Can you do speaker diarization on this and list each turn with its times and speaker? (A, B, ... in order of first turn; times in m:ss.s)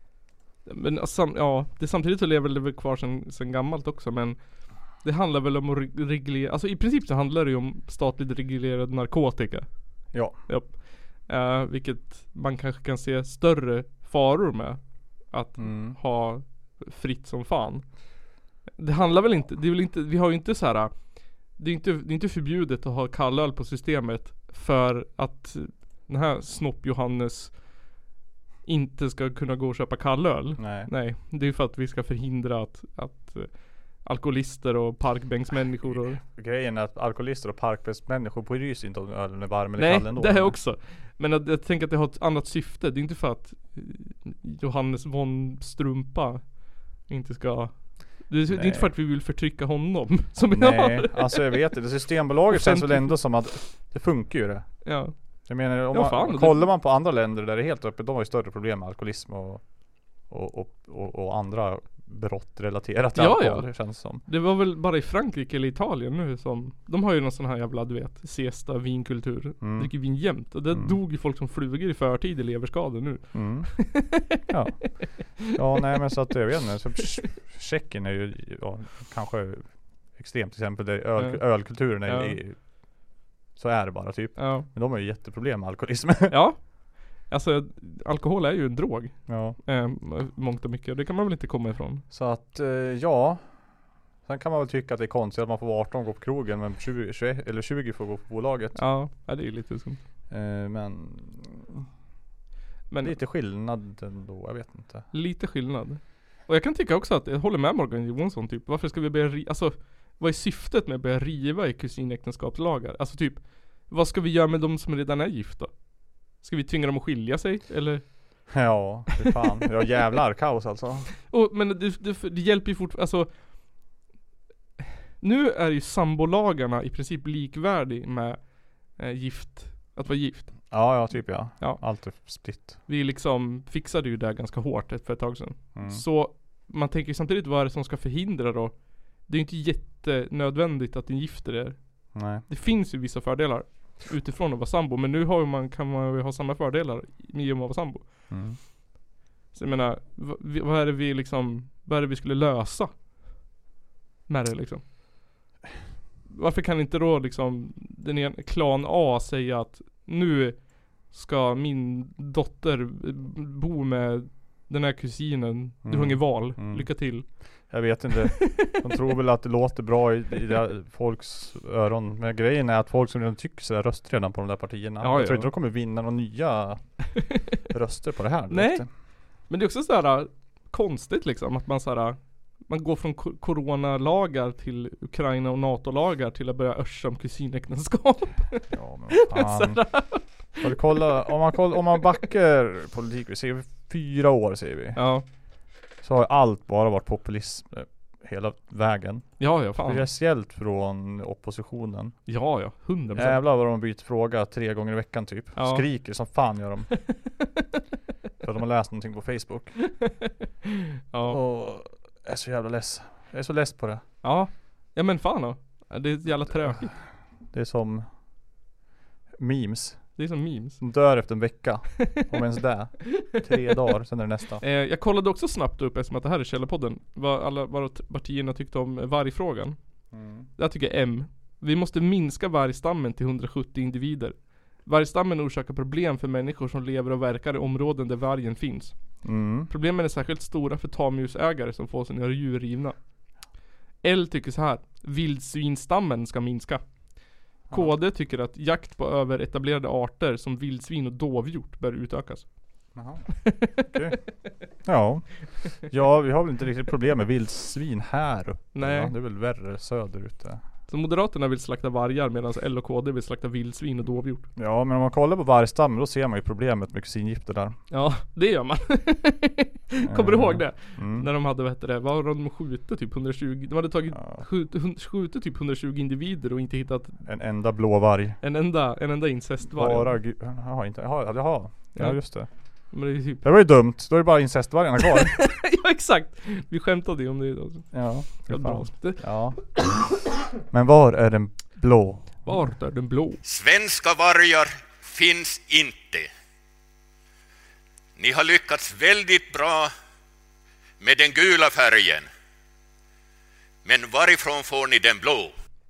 0:00.6-0:18.0 A
0:10.1-0:10.4 B
0:15.6-0:16.0 B
0:18.8-0:28.0 A
0:28.6-0:36.2 A
0:30.6-0:30.9 B
0:35.9-0:40.6 B
0:39.8-0:51.8 A
0:48.5-0:48.9 B
0:50.5-1:04.2 B
0:52.5-0:53.5 A
0:54.8-0:55.1 A
0:55.7-0:56.7 A
1:03.2-1:14.4 A
1:09.6-1:11.0 B
1:13.3-1:26.4 B
1:21.2-1:22.4 A
1:24.4-1:24.7 A
1:26.3-1:32.1 A
1:29.3-1:29.6 B
1:32.1-1:33.6 B
1:34.2-1:38.8 B
1:38.8-1:40.0 A
1:40.3-1:41.9 B
1:42.9-1:43.2 A
1:43.0-1:45.1 B
1:45.1-1:58.6 A
1:58.5-2:01.1 B
2:01.3-2:03.4 A
2:05.2-2:11.0 A
2:10.7-2:12.8 B
2:11.6-2:28.6 A
2:15.8-2:16.0 B
2:22.1-2:22.4 B
2:28.3-2:28.6 B
2:29.5-2:33.0 A
2:34.3-2:35.2 A
2:36.3-2:47.7 A
2:45.8-2:58.9 B
2:48.4-2:48.7 A
2:55.0-2:55.5 A
2:58.5-3:11.0 A
3:08.7-3:15.0 B
3:15.0-3:15.2 A
3:16.0-3:22.3 B
3:19.4-3:20.1 A
3:22.3-3:23.4 A
3:23.1-3:27.1 B
3:25.6-3:26.2 A
3:28.4-3:29.8 B
3:31.1-3:31.4 A
3:31.3-3:34.0 B
3:34.2-3:36.9 A
3:36.5-3:38.1 B
3:39.4-3:40.2 B
3:40.2-3:40.8 A
3:40.8-3:44.6 B
3:44.6-3:49.8 A
3:50.1-3:50.5 B
3:50.6-4:03.0 A
3:59.2-3:59.7 B
4:04.0-4:13.9 A
4:07.7-4:08.0 B
4:13.0-4:20.6 B
4:18.7-4:19.1 A
4:20.9-4:24.5 A
4:24.6-4:27.8 B
4:27.9-4:37.2 A
4:30.0-4:31.3 B
4:34.1-4:34.5 B
4:37.2-4:38.4 B
4:38.4-4:40.2 A
4:39.7-4:45.5 B
4:42.0-4:43.4 A
4:45.3-4:49.4 A
4:47.9-4:49.7 B
4:50.7-4:52.7 B
4:52.4-4:53.4 A
4:53.4-4:56.3 C
4:58.2-4:59.9 C
5:01.0-5:02.3 C
5:03.8-5:05.5 C